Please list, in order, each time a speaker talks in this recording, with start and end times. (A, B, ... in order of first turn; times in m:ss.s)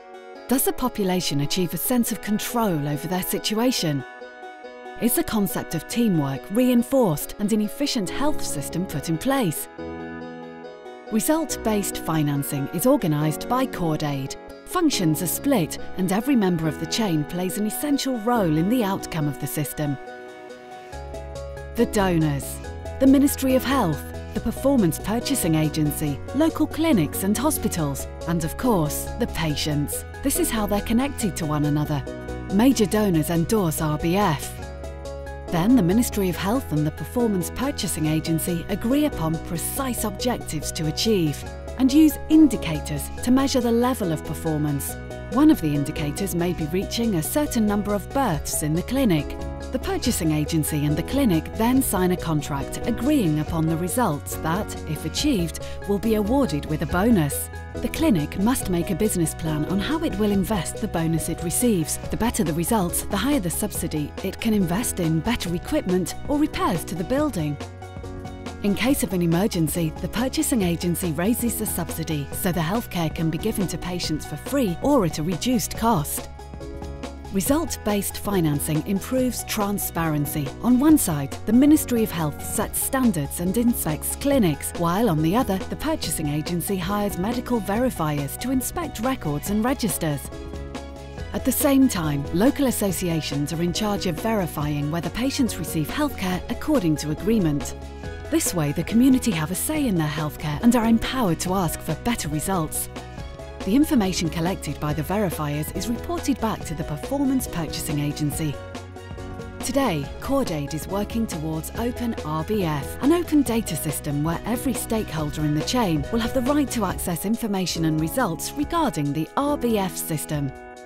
0:00.5-0:04.0 A
0:05.0-0:09.7 A
0:11.1-0:20.0 A
0:21.7-0:34.6 A
0:35.5-1:07.6 A
1:08.6-1:16.3 A
1:17.3-1:30.3 A
1:31.3-1:37.8 A
1:38.3-1:42.9 A
1:43.6-1:48.6 A
1:49.6-2:00.5 A